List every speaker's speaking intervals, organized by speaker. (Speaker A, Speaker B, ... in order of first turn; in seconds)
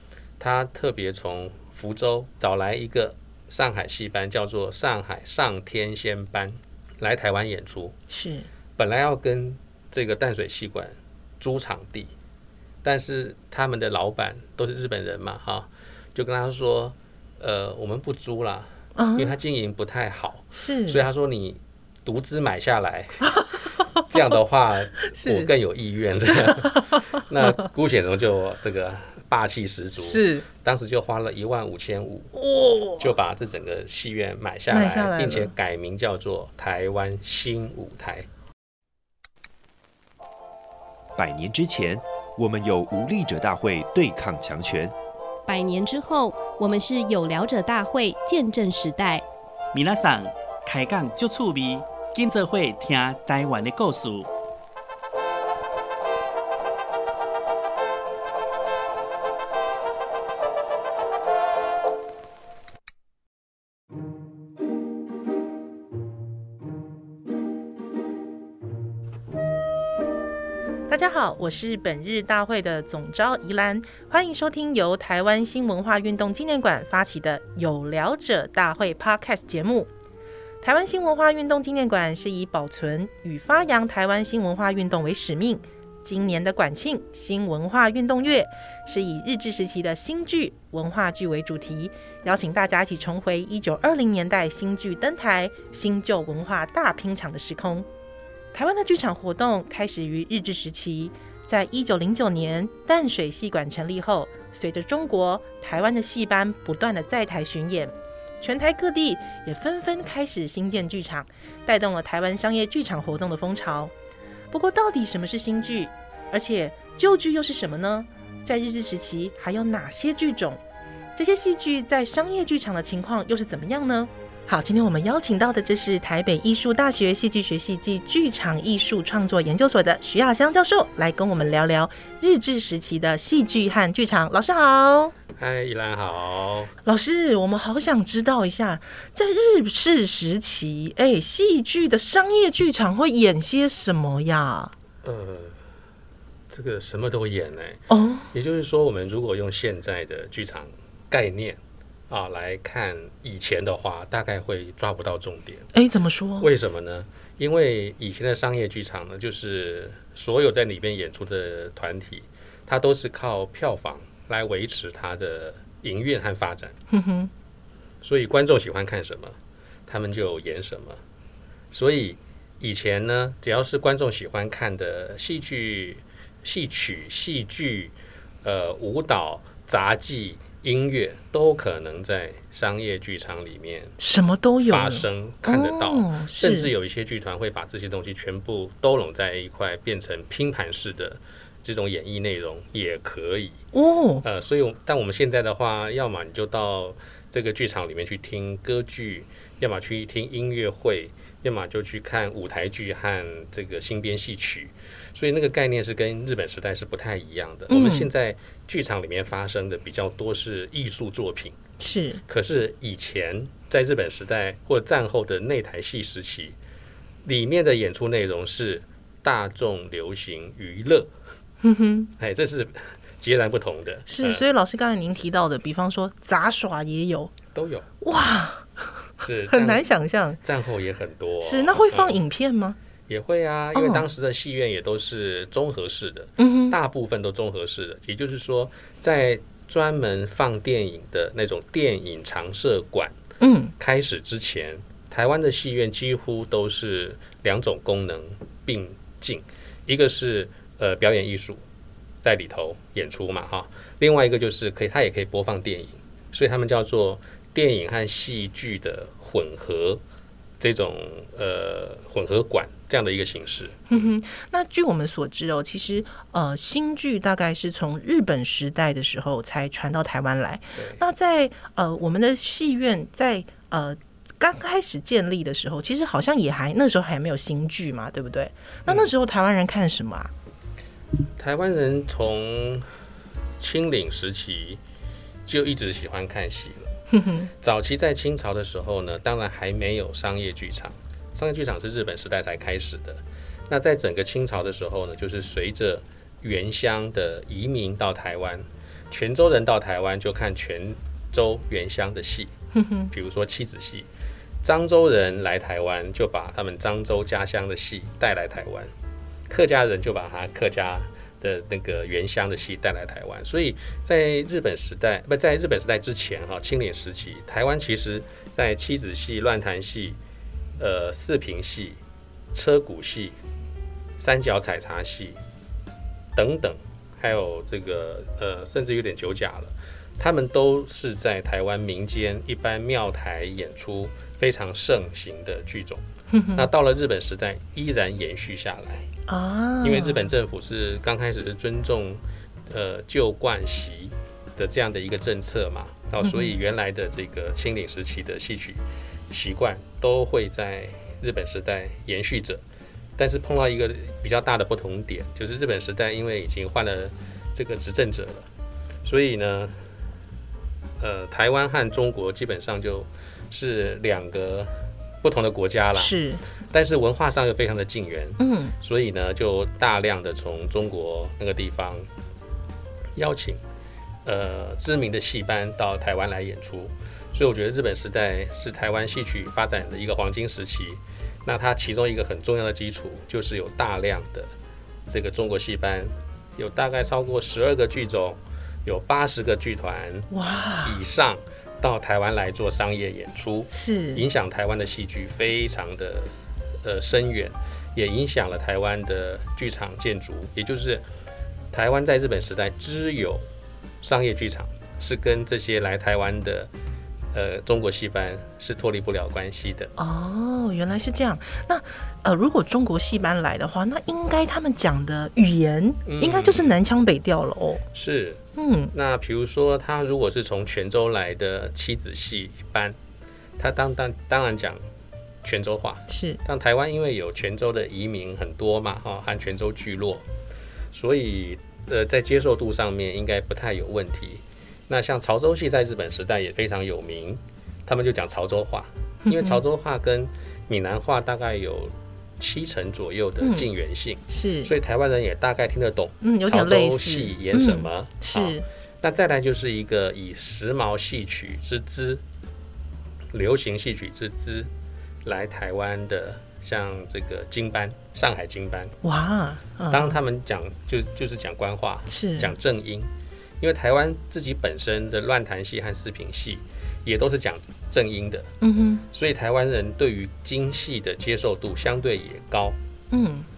Speaker A: 0.4-8.0, 8.8-12.1, 12.8-23.3, 24.0-32.3, 33.0-38.3, 135.4-136.7, 145.0-145.6, 146.5-151.6, 152.1-155.7, 156.4-166.8, 168.0-171.0, 171.7-184.0, 184.7-193.6, 194.2-211.6, 212.3-216.6, 217.2-221.1, 222.2-224.4, 227.5-227.9, 229.2-229.8, 230.4-232.2, 233.1-243.2, 243.8-251.6, 252.2-260.0, 260.6-264.1, 270.8-271.0, 281.4-282.9, 283.6-284.8, 285.5-286.9, 287.6-302.5, 303.1-304.1, 304.6-308.9, 309.5-320.2, 320.8-322.0, 322.5-323.4, 324.2-325.4, 326.4-339.1, 339.8-352.6, 353.2-358.5, 359.0-359.8, 361.0-364.7, 365.2-366.2, 366.7-372.1, 373.1-373.6, 374.2-384.5, 385.1-390.3, 390.8-396.3, 396.8-401.0, 401.7-403.4, 404.0-406.7, 407.3-409.9, 416.1-416.8, 417.9-423.0, 423.6-424.8, 425.4-430.2, 430.9-452.2, 453.3-454.7, 455.2-458.9, 459.9-463.1, 463.6-468.5, 469.1-472.8
Speaker B: 8.1-8.5, 18.9-19.4, 20.5-21.0, 25.1-25.5, 26.4-27.5, 30.0-30.4, 32.4-33.1, 34.7-35.5, 70.9-79.9, 80.6-97.9, 98.5-113.9, 114.5-120.6, 121.2-135.2, 136.8-144.7, 147.9-148.3, 155.7-156.5, 166.9-167.3, 184.0-186.7, 193.7-194.2, 207.7-208.1, 211.8-212.2, 221.6-222.1, 224.1-227.3, 228.0-230.4, 231.4-232.8, 233.7-234.1, 236.4-236.8, 243.4-243.7, 263.9-280.3, 287.1-287.5, 302.7-303.1, 336.3-336.7, 339.3-340.3, 346.2-346.5, 365.9-366.4, 368.4-368.8, 390.3-391.0, 393.7-394.2, 410.0-417.8, 418.6-418.9, 426.1-426.4, 439.2-439.6, 443.4-443.7, 444.3-444.7, 446.2-448.6, 459.0-460.2, 462.1-462.5, 468.6-469.1, 473.1-473.5
Speaker C: 41.2-44.9
Speaker D: 45.5-49.2
Speaker E: 49.7-54.3